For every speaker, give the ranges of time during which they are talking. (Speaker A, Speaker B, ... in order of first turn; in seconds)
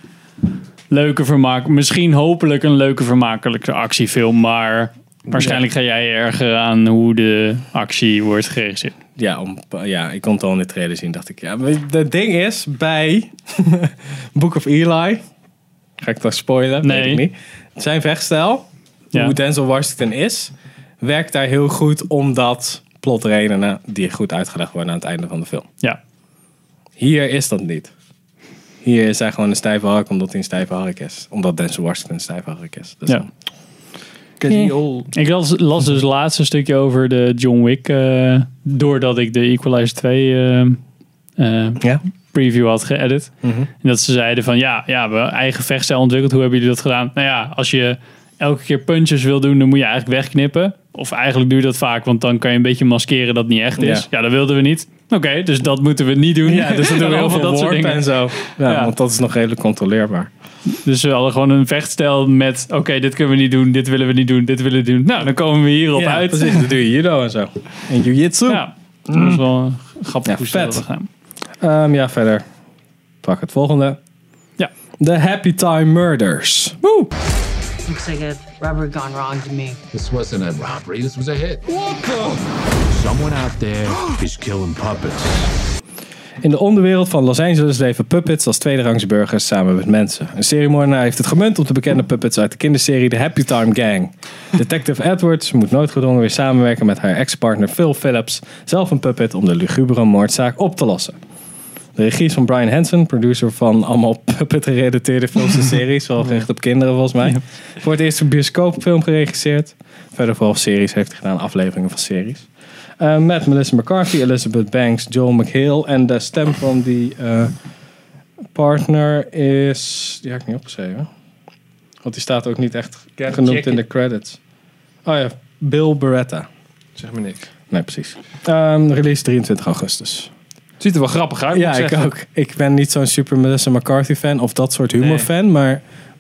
Speaker A: 0.9-9.0, 16.8-17.2, 35.1-40.8, 41.4-58.9, 60.7-66.7, 68.5-71.1
Speaker B: 5.3-5.6, 34.4-35.1, 123.2-123.8, 127.0-127.5, 130.8-132.1, 135.0-135.3
Speaker C: 9.2-15.2, 16.0-25.7, 27.0-27.9, 28.8-33.3, 34.5-34.7, 43.4-43.7, 53.8-54.1, 56.5-60.3, 66.0-69.4, 70.3-70.8, 71.6-72.4, 73.2-74.0, 75.0-76.8, 86.4-101.2, 102.0-112.5, 113.0-117.5, 118.5-121.1, 122.0-124.4, 125.0-126.5, 127.7-130.3, 131.5-135.8
Speaker D: 77.8-79.8
Speaker E: 79.9-81.7, 82.9-85.5